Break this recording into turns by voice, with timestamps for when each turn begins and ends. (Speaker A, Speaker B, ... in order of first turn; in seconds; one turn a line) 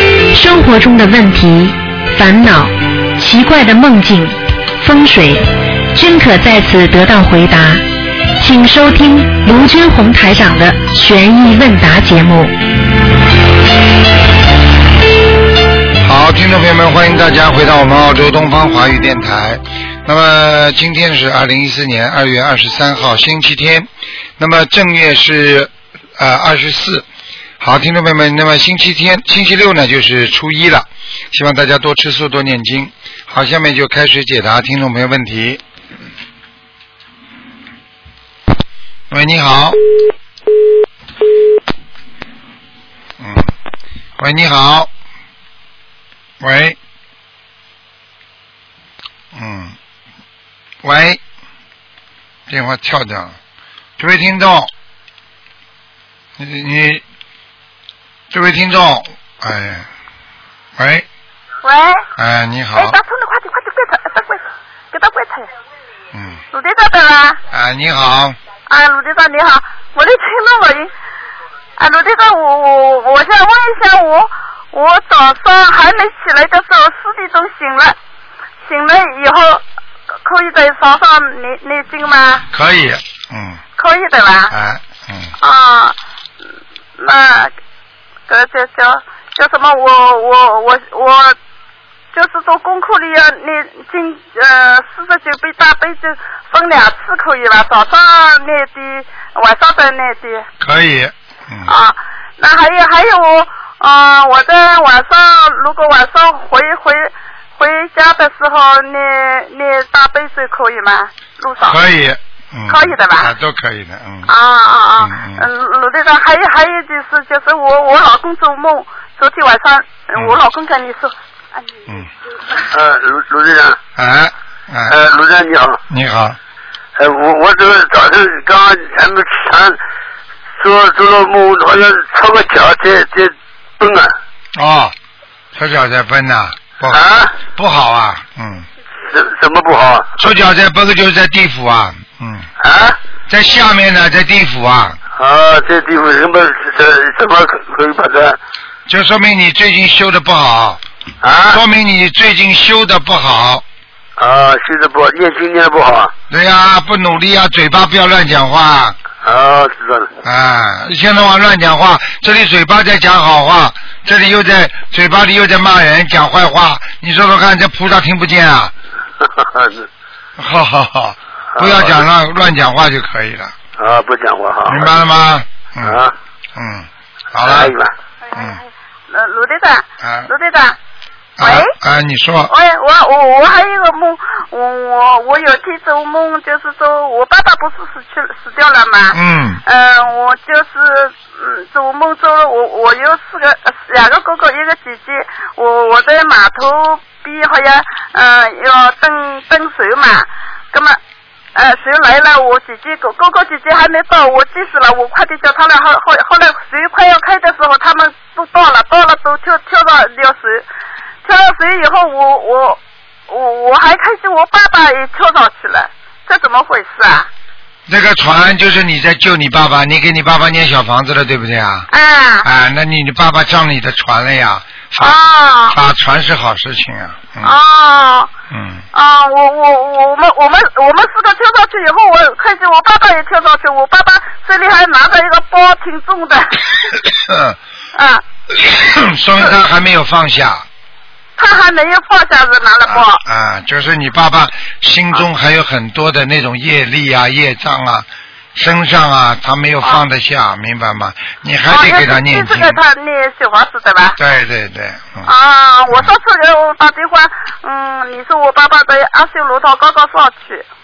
Speaker A: 0.3-7.8
Speaker A: 8.4-12.6
Speaker B: 16.0-27.1
Speaker B: 27.6-35.6
Speaker B: 39.1-39.8
Speaker B: 43.2-43.5
Speaker B: 44.2-44.9
Speaker B: 46.4-46.8
Speaker B: 49.3-49.8
Speaker B: 50.8-51.2
Speaker B: 52.5-53.4
Speaker B: 54.0-54.7
Speaker B: 56.4-57.0
Speaker B: 58.3-59.9
Speaker B: 60.8-61.1
Speaker C: 61.6-62.0
Speaker B: 62.2-63.0
Speaker C: 62.8-65.5
Speaker B: 66.1-66.4
Speaker C: 66.5-67.4
Speaker B: 67.5-68.4
Speaker C: 68.7-70.9
Speaker C: 71.8-78.0
Speaker C: 78.6-79.6
Speaker C: 80.2-82.5
Speaker B: 82.5-83.6
Speaker C: 83.8-84.5
Speaker B: 84.5-85.4
Speaker C: 85.4-86.0
Speaker C: 87.0-87.5
Speaker C: 88.3-91.4
Speaker C: 92.1-100.5
Speaker B: 100.6-101.8
Speaker C: 101.7-111.8
Speaker B: 111.6-114.3
Speaker C: 112.7-113.3
Speaker C: 114.3-121.8
Speaker B: 115.0-115.5
Speaker B: 120.1-120.4
Speaker D: 122.7-123.8
Speaker B: 124.0-125.0
Speaker D: 124.9-125.8
Speaker B: 125.9-126.4
Speaker D: 127.0-129.8
Speaker D: 130.6-134.1
Speaker B: 134.6-134.9
Speaker B: 135.6-138.7
Speaker D: 136.9-137.3
Speaker D: 139.1-140.1
Speaker B: 140.2-142.5
Speaker D: 142.6-143.0
Speaker B: 143.3-145.0
Speaker D: 145.2-148.4
Speaker B: 148.9-150.8
Speaker D: 151.2-151.6
Speaker B: 151.5-153.7
Speaker D: 154.2-156.1
Speaker B: 156.3-159.0
Speaker D: 159.2-160.1
Speaker B: 160.2-168.7
Speaker D: 169.2-169.8
Speaker B: 170.4-173.6
Speaker D: 171.6-172.0
Speaker D: 173.8-174.9
Speaker B: 174.7-176.0
Speaker D: 175.8-176.1
Speaker B: 176.6-177.8
Speaker D: 177.4-177.9
Speaker B: 178.3-178.6
Speaker C: 178.3-180.8
Speaker B: 180.0-180.3
Speaker B: 181.4-182.5
Speaker C: 181.4-181.7
Speaker C: 182.5-201.0
Speaker B: 189.1-189.6
Speaker C: 201.6-210.7
Speaker C: 211.2-217.3
Speaker B: 217.9-221.9
Speaker C: 221.9-222.5
Speaker B: 222.4-227.6
Speaker C: 225.0-225.8
Speaker C: 227.4-228.3
Speaker B: 228.5-228.8
Speaker C: 228.9-236.8
Speaker B: 237.1-237.6
Speaker C: 237.9-238.2
Speaker B: 238.5-240.7
Speaker C: 241.4-243.2
Speaker B: 242.8-252.8
Speaker C: 251.7-254.2
Speaker B: 254.2-255.3
Speaker C: 255.2-260.7